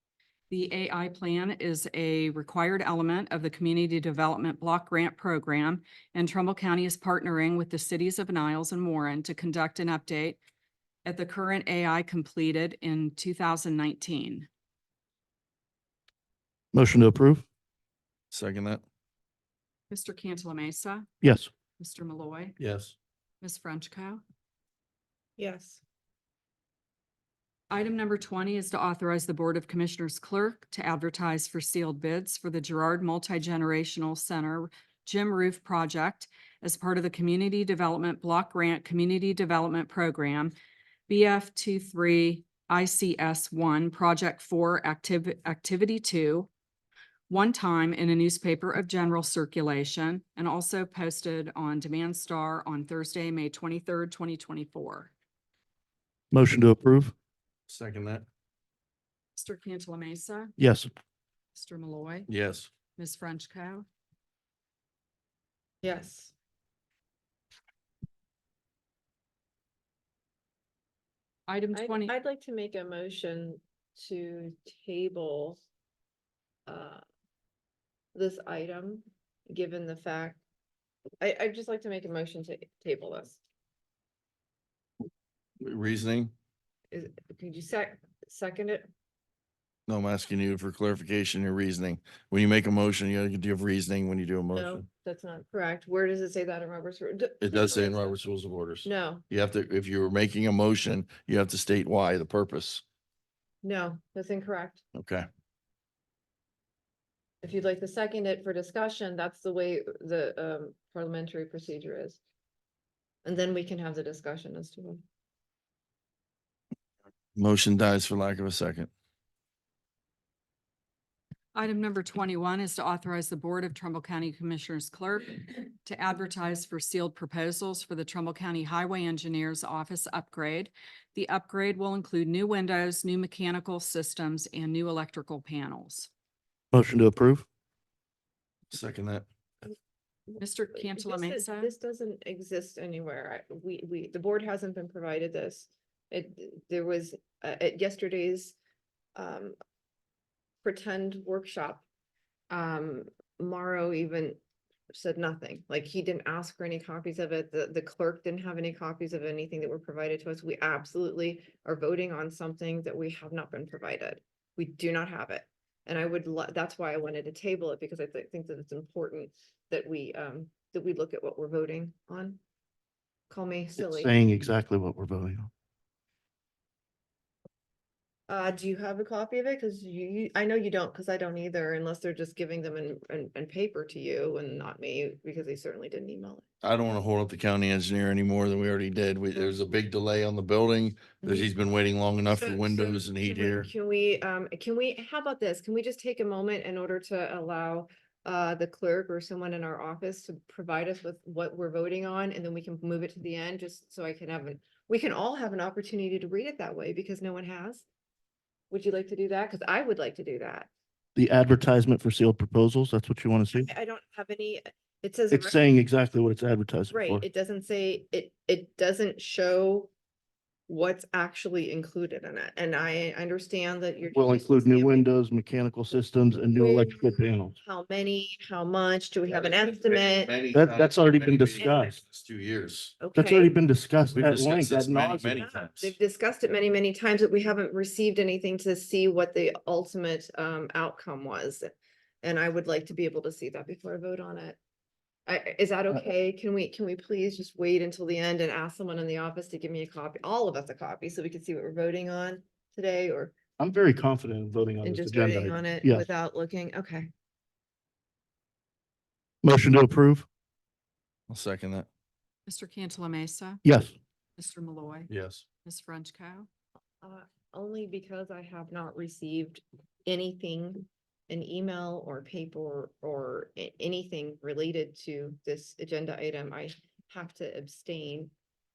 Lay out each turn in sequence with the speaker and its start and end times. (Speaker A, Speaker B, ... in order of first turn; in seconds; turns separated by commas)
Speaker A: 0.5-10.4, Speaker A: 11.0-14.5, Speaker B: 16.7-17.4, Speaker C: 18.3-18.8, Speaker A: 19.9-21.1, Speaker B: 21.2-21.5, Speaker A: 21.8-22.6, Speaker C: 22.6-22.9, Speaker A: 23.4-24.2, Speaker D: 25.4-25.8, Speaker A: 27.7-40.5, Speaker A: 41.1-46.5, Speaker A: 47.3-55.1, Speaker B: 56.3-57.1, Speaker C: 57.7-58.2, Speaker A: 59.4-60.5, Speaker B: 60.6-60.9, Speaker A: 61.5-62.3, Speaker C: 62.3-62.7, Speaker A: 63.0-63.9, Speaker D: 65.8-66.3, Speaker A: 71.5-72.1, Speaker D: 71.7-75.6, Speaker D: 76.7-77.0, Speaker D: 78.1-80.4, Speaker D: 81.2-83.4, Speaker C: 85.6-86.3, Speaker D: 86.9-88.9, Speaker C: 89.9-94.8, Speaker D: 94.5-98.2, Speaker C: 97.4-102.8, Speaker D: 98.8-99.2, Speaker D: 103.6-104.8, Speaker C: 104.9-105.2, Speaker D: 107.4-112.2, Speaker D: 113.2-115.0, Speaker C: 117.3-118.9, Speaker A: 121.5-136.1, Speaker B: 136.7-137.4, Speaker C: 138.7-139.2, Speaker A: 140.4-141.7, Speaker D: 140.7-148.5, Speaker D: 149.2-149.6, Speaker D: 150.6-151.8, Speaker D: 152.5-154.4, Speaker D: 154.9-172.4, Speaker D: 173.3-174.1, Speaker B: 173.8-175.5, Speaker D: 178.3-186.4, Speaker C: 186.6-193.7, Speaker D: 191.2-191.5, Speaker D: 192.3-207.8, Speaker D: 208.7-210.7, Speaker B: 211.1-213.7, Speaker D: 213.6-215.6, Speaker B: 215.3-217.2, Speaker D: 216.9-219.9, Speaker D: 220.7-225.1, Speaker B: 224.1-227.5, Speaker D: 226.6-230.4, Speaker C: 229.3-233.0, Speaker B: 230.5-232.0, Speaker D: 231.6-231.9, Speaker D: 233.0-233.5, Speaker B: 233.1-235.4, Speaker C: 234.1-235.9, Speaker D: 235.4-241.7, Speaker D: 242.2-244.6, Speaker D: 245.3-253.3, Speaker B: 253.6-256.0, Speaker D: 254.8-257.1, Speaker B: 259.4-260.2, Speaker C: 261.3-261.9, Speaker A: 262.5-263.6, Speaker B: 263.6-263.9, Speaker A: 264.4-265.1, Speaker C: 265.1-265.4, Speaker A: 265.6-266.5, Speaker D: 267.0-278.3